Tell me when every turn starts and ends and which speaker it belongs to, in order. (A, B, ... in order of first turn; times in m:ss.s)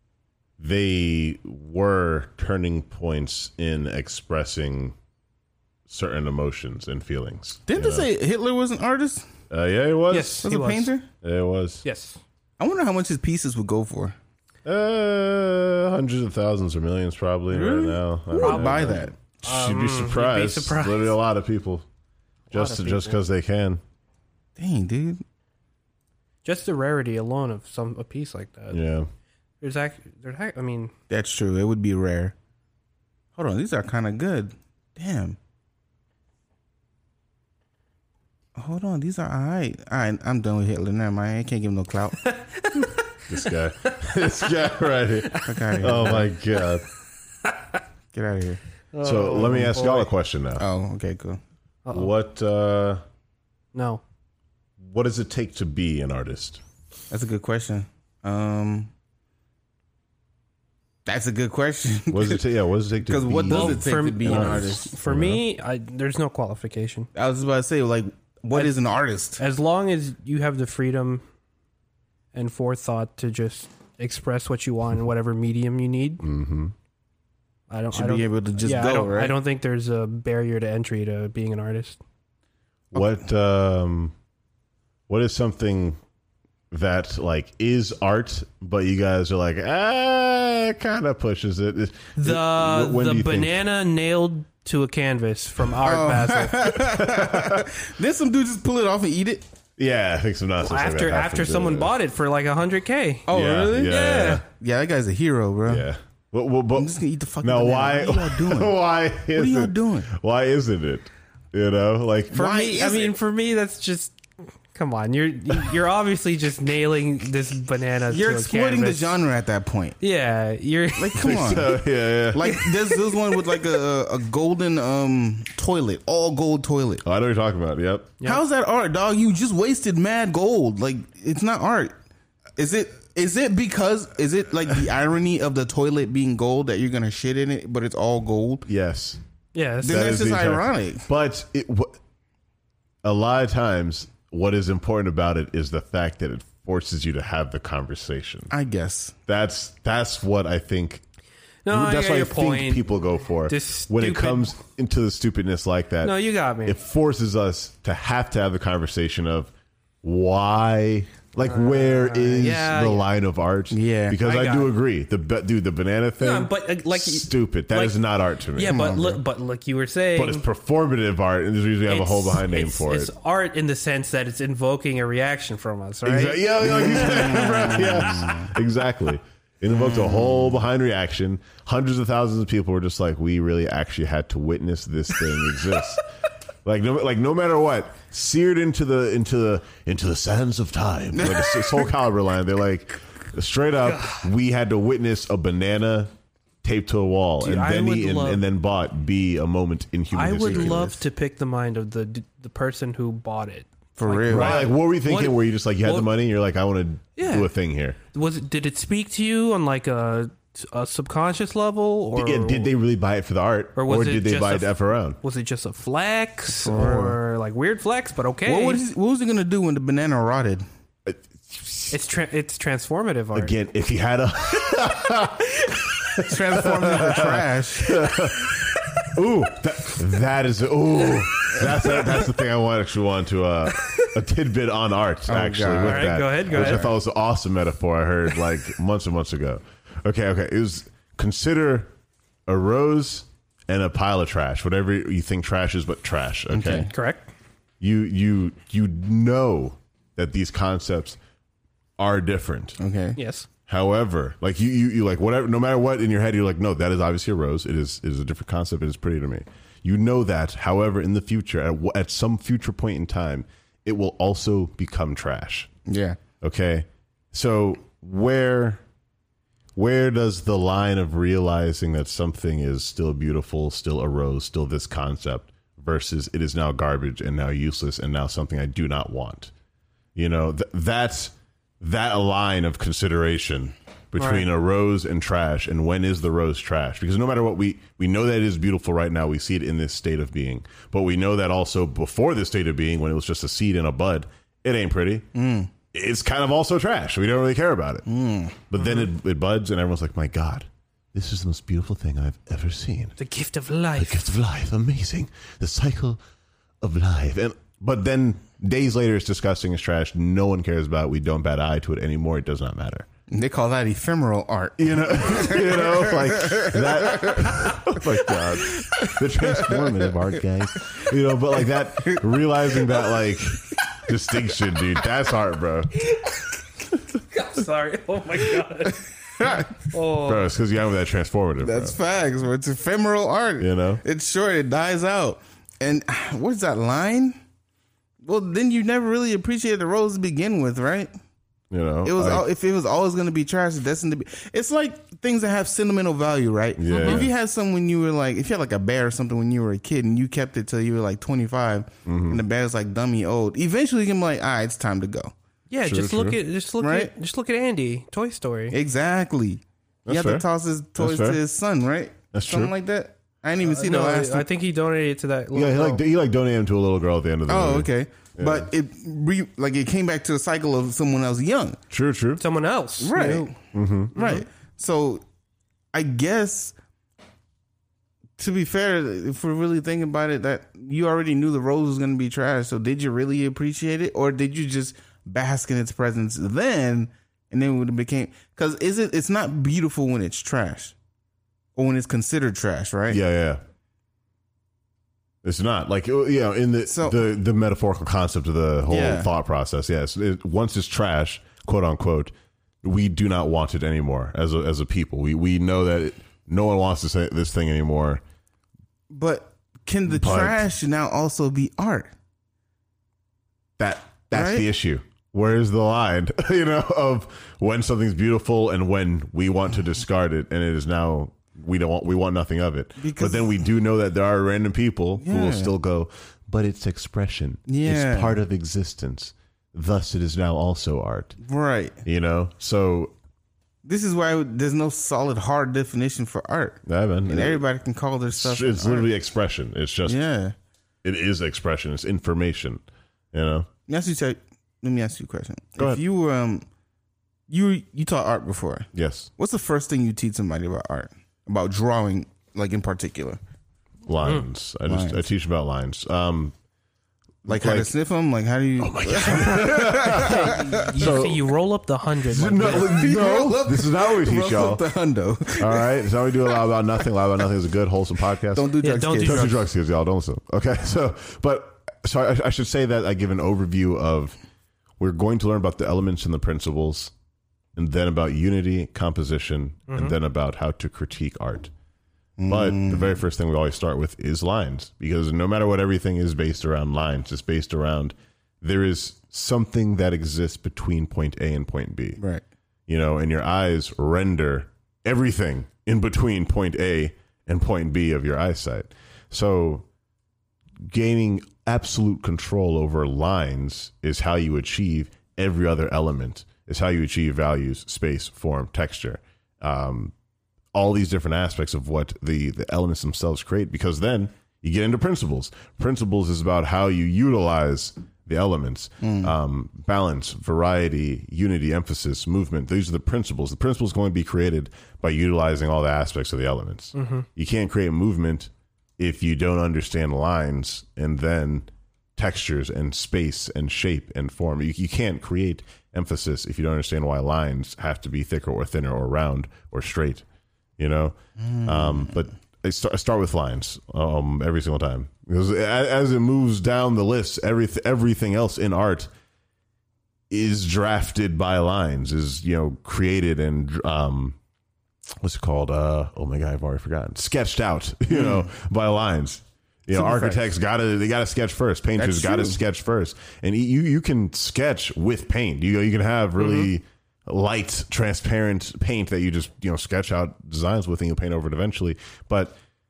0:00.6-0:05.0 A
0:05.9-0:08.1 A
0:07.7-0:09.3 B
0:09.5-0:10.5 A
0:10.1-0:10.9 C
0:10.4-0:11.1 B
0:11.2-0:11.8 A
0:11.8-0:12.2 C
0:12.6-0:14.2 B
0:14.6-0:21.8 A
0:17.5-0:19.2 B
0:18.4-0:21.2 C
0:22.5-0:23.2 C
0:22.5-0:23.8 A
0:24.6-0:25.2 B
0:26.4-0:28.8 C
0:28.7-0:29.1 A
0:29.6-0:30.9 C
0:31.1-0:32.4 B
0:33.4-0:35.4 B
0:38.6-0:42.2 B
0:42.2-0:44.5 C
0:43.3-0:46.8 A
0:45.2-0:46.3 C
0:45.5-0:46.3 B
0:48.1-0:48.6 B
0:48.9-0:50.1 C
0:49.0-0:50.7 A
0:50.6-0:51.4 B
0:51.9-0:52.1 C
0:51.9-0:53.0 A
0:53.7-0:54.0 C
0:54.8-0:56.6 A
0:57.1-0:58.9 B
1:01.0-1:02.4 B
1:02.1-1:05.4 A
1:03.0-1:04.9 B
1:03.5-1:07.1 C
1:07.2-1:09.4 B
1:09.4-1:11.2 C
1:12.3-1:16.2 C
1:16.2-1:16.7 A
1:17.7-1:22.0 C
1:17.9-1:19.4 B
1:22.9-1:24.1 A
1:25.1-1:26.0 A
1:26.7-1:33.6 A
1:32.2-1:36.8 C
1:35.8-1:39.4 B
1:36.8-1:37.7 A
1:39.8-1:41.9 A
1:40.6-1:44.4 C
1:43.3-1:43.9 B
1:43.3-1:44.4 A
1:44.5-1:45.9 B
1:45.7-1:52.4 A
1:46.7-1:48.8 B
1:49.3-1:50.1 B
1:52.3-1:53.2 B
1:52.3-1:54.2 C
1:54.7-1:59.2 C
1:58.1-2:00.0 B
2:00.0-2:01.8 C
2:01.0-2:07.0 B
2:01.2-2:02.6 A
2:02.4-2:03.2 C
2:07.0-2:08.2 A
2:08.2-2:11.9 B
2:12.6-2:18.7 B
2:18.7-2:19.2 A
2:19.5-2:20.1 C
2:19.8-2:21.1 B
2:19.8-2:22.0 A
2:23.0-2:28.5 A
2:28.5-2:29.1 B
2:29.3-2:31.0 A
2:31.6-2:32.9 C
2:31.7-2:39.5 A
2:33.4-2:34.5 C
2:36.0-2:36.8 C
2:40.0-2:48.9 A
2:41.4-2:43.1 C
2:43.7-2:44.2 B
2:44.2-2:44.7 C
2:46.2-2:48.0 C
2:48.6-2:50.5 C
2:48.6-2:49.2 B
2:50.2-2:53.1 A
2:51.9-2:57.9 C
2:56.0-3:06.1 A
2:56.6-2:58.5 B
2:59.7-3:00.6 B
3:06.6-3:16.1 A
3:11.1-3:11.9 B
3:13.8-3:14.3 C
3:16.6-3:20.9 A
3:17.4-3:18.4 C
3:20.1-3:26.1 C
3:20.4-3:21.0 B
3:24.0-3:24.7 B
3:24.3-3:28.0 A
3:27.2-3:27.5 C
3:28.1-3:32.7 C
3:32.2-3:35.2 A
3:33.8-3:38.8 C
3:36.6-3:37.2 B
3:38.5-3:40.6 B
3:41.1-3:42.0 A
3:41.9-3:43.6 C
3:43.4-4:01.9 A
3:46.2-3:48.0 B
3:48.4-3:49.1 C
3:51.4-3:52.3 C
3:53.7-3:54.1 C
3:55.3-3:57.0 B
3:55.8-3:56.9 C
4:02.5-4:06.9 A
4:06.5-4:06.9 B
4:06.8-4:07.3 C
4:07.8-4:11.2 A
4:12.0-4:12.8 A
4:12.8-4:13.2 B
4:13.2-4:13.5 C
4:13.7-4:25.7 A
4:25.9-4:26.2 B
4:26.4-4:28.8 A
4:29.8-4:39.5 A
4:40.2-4:55.3 A
4:44.2-4:44.5 C
4:55.3-4:55.7 B
4:55.9-4:58.1 A
4:58.1-4:58.6 B
4:58.7-5:03.2 A
4:58.8-4:59.1 C
5:03.2-5:04.3 C
5:04.0-5:06.2 A
5:06.8-5:13.1 A
5:13.3-5:20.2 B
5:14.8-5:25.9 A
5:26.0-5:26.5 C
5:27.3-5:29.1 C
5:29.4-5:29.7 B
5:29.9-5:30.5 C
5:30.1-5:32.0 A
5:31.6-5:37.4 B
5:33.6-5:34.0 A
5:38.2-5:41.1 B
5:41.7-5:42.4 A
5:42.0-5:55.3 B
5:46.8-5:47.3 A
5:46.9-5:47.2 C
5:52.1-5:52.4 A
5:55.7-5:58.8 C
5:55.8-5:56.4 A
5:56.8-5:57.1 B
5:58.7-6:04.5 B
6:00.1-6:00.4 A
6:01.0-6:01.4 A
6:02.3-6:02.7 A
6:03.6-6:06.0 C
6:05.5-6:08.7 A
6:07.5-6:11.8 B
6:11.9-6:12.4 A
6:12.4-6:13.5 C
6:13.0-6:13.6 B
6:13.7-6:14.1 A
6:14.1-6:15.2 B
6:14.2-6:14.4 C
6:15.9-6:16.8 B
6:18.4-6:31.0 B
6:31.8-6:33.2 B
6:33.1-6:33.6 A
6:35.4-6:48.2 A
6:36.9-6:37.2 B
6:38.9-6:39.3 B
6:49.1-6:52.1 B
6:50.1-6:50.6 A
6:53.8-7:11.4 A
6:54.3-6:54.7 B
7:03.0-7:03.6 B
7:05.2-7:05.7 B
7:07.7-7:08.4 B
7:11.4-7:12.0 B
7:12.0-7:13.1 A
7:13.8-7:19.1 B
7:16.9-7:17.6 A
7:18.4-7:20.2 A
7:20.0-7:20.6 B
7:21.0-7:22.8 A
7:23.3-7:23.7 A
7:23.9-7:26.7 B
7:27.5-7:33.4 B
7:28.9-7:29.3 A
7:34.1-7:36.5 A
7:34.8-7:35.2 B
7:37.4-7:37.9 A
7:37.5-7:41.2 B
7:38.8-7:41.5 A
7:40.0-7:43.0 C
7:42.3-7:44.8 A
7:42.6-7:47.0 B
7:45.6-7:54.4 A
7:48.5-7:49.7 B
7:48.8-7:49.6 C
7:55.0-7:57.1 A
7:57.8-8:01.7 A
7:59.9-8:00.2 C
8:02.4-8:03.2 B
8:02.5-8:12.2 A
8:12.2-8:12.4 B
8:12.9-8:19.8 A
8:20.8-8:30.1 A
8:30.7-9:00.2 A
8:39.0-8:39.3 B
8:47.0-8:47.3 C
9:00.8-9:09.1 A
9:01.4-9:02.2 B
9:10.3-9:14.4 A
9:15.2-9:32.6 A
9:18.1-9:18.5 B
9:19.9-9:20.5 B
9:22.0-9:22.6 B
9:26.4-9:26.7 C